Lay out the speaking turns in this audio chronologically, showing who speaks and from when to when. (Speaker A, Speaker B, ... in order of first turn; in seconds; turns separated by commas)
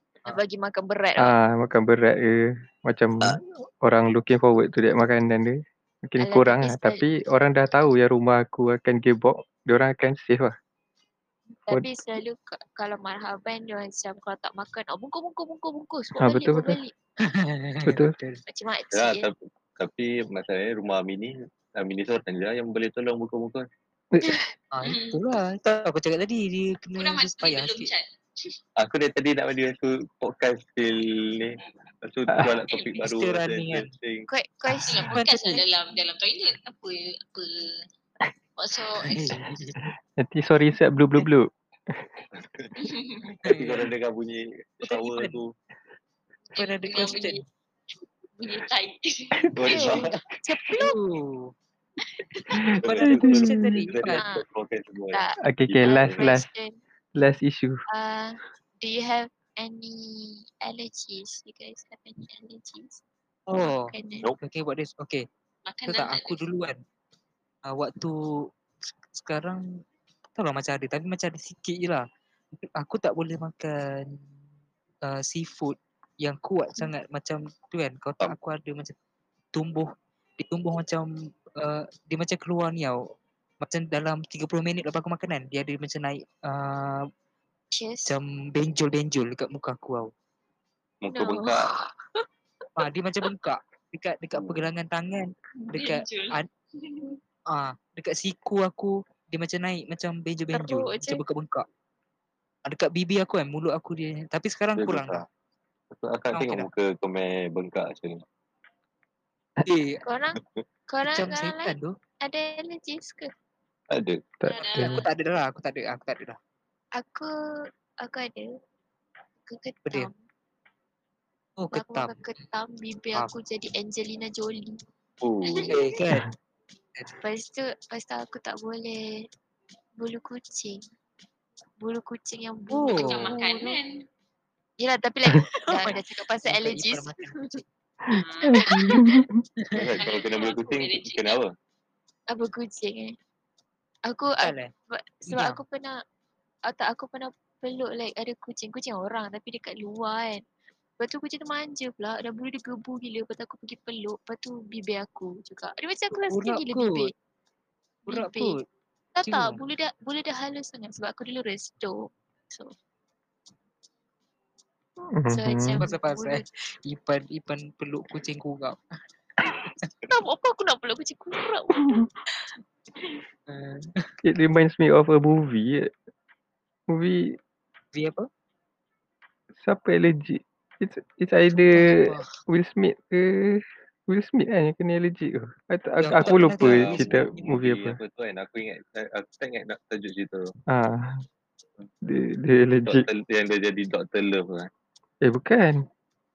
Speaker A: 0.2-1.4, Speaker B: 1.2-10.5, Speaker A: 6.2-7.0, Speaker A: 11.6-16.9, Speaker B: 16.2-16.8, Speaker C: 17.3-18.4, Speaker B: 17.9-18.1, Speaker A: 18.5-19.3, Speaker D: 18.9-23.6, Speaker B: 24.1-24.5, Speaker C: 24.7-27.9, Speaker E: 24.8-25.2, Speaker E: 27.0-28.6, Speaker D: 28.8-34.3, Speaker B: 32.3-32.6, Speaker E: 32.7-33.0, Speaker C: 33.0-33.9, Speaker A: 34.3-35.2, Speaker E: 34.9-37.9, Speaker C: 35.1-35.6, Speaker E: 38.6-39.3, Speaker C: 39.1-39.8, Speaker B: 39.8-42.0, Speaker D: 42.3-42.7, Speaker E: 42.8-43.3, Speaker C: 43.4-43.9, Speaker D: 43.4-45.5, Speaker C: 44.8-45.4, Speaker E: 46.5-47.4, Speaker C: 46.5-47.4, Speaker E: 48.3-50.0, Speaker D: 49.5-50.2, Speaker A: 49.7-51.0, Speaker C: 50.8-51.5, Speaker E: 52.1-52.8, Speaker D: 52.7-56.2, Speaker B: 52.8-53.9, Speaker C: 52.8-54.2, Speaker A: 54.1-54.4, Speaker A: 55.1-56.8, Speaker B: 55.4-56.5, Speaker B: 57.1-57.8, Speaker A: 57.9-63.0, Speaker C: 63.5-65.2, Speaker A: 63.5-64.3, Speaker E: 65.7-66.5, Speaker C: 65.9-66.8, Speaker C: 67.7-68.2, Speaker C: 69.1-69.6, Speaker C: 70.3-72.0, Speaker C: 72.8-74.2, Speaker C: 75.0-78.9, Speaker C: 79.5-83.0, Speaker C: 83.6-87.1, Speaker A: 87.7-88.2, Speaker C: 88.0-90.1, Speaker D: 91.0-91.7, Speaker A: 91.1-91.9, Speaker C: 92.8-96.5, Speaker D: 94.3-94.7, Speaker E: 95.7-97.2, Speaker C: 97.5-101.6, Speaker A: 100.5-101.2, Speaker C: 102.7-105.2, Speaker D: 104.8-105.2, Speaker D: 105.9-108.2, Speaker C: 106.3-106.7, Speaker C: 109.6-110.0, Speaker A: 110.0-113.3, Speaker C: 111.1-112.0, Speaker D: 113.9-114.3, Speaker B: 114.4-115.0, Speaker E: 114.5-115.1, Speaker C: 114.8-116.4, Speaker A: 117.0-117.3, Speaker A: 118.0-118.5, Speaker A: 119.5-120.2, Speaker C: 121.6-122.2, Speaker A: 121.7-124.8, Speaker D: 125.2-125.7, Speaker E: 125.4-125.7, Speaker C: 125.7-126.3, Speaker A: 127.2-129.2, Speaker A: 130.0-130.8, Speaker A: 131.8-133.8, Speaker C: 132.7-133.2, Speaker E: 133.0-134.0, Speaker A: 134.8-137.6, Speaker C: 135.6-137.7, Speaker B: 138.1-139.4, Speaker E: 138.2-138.6, Speaker A: 138.5-139.2, Speaker C: 139.7-139.9, Speaker D: 139.7-141.5, Speaker E: 140.0-141.4, Speaker A: 142.3-143.2, Speaker A: 144.1-145.9, Speaker C: 144.4-144.7, Speaker C: 145.3-145.6, Speaker A: 146.7-150.4, Speaker A: 151.0-157.1, Speaker C: 156.3-157.1, Speaker A: 158.1-158.6, Speaker C: 158.1-158.6, Speaker A: 159.2-161.9, Speaker C: 159.2-159.6, Speaker B: 165.2-165.9, Speaker A: 165.3-166.4, Speaker C: 165.8-168.8, Speaker C: 169.4-169.9, Speaker A: 170.1-172.1, Speaker C: 173.5-174.1, Speaker B: 174.2-175.9, Speaker B: 176.9-177.3, Speaker C: 177.9-178.3, Speaker B: 179.6-188.0, Speaker C: 181.7-182.3, Speaker C: 186.0-187.4, Speaker D: 186.2-190.5, Speaker B: 190.7-191.2, Speaker B: 192.0-193.1, Speaker D: 192.8-194.7, Speaker B: 195.2-195.8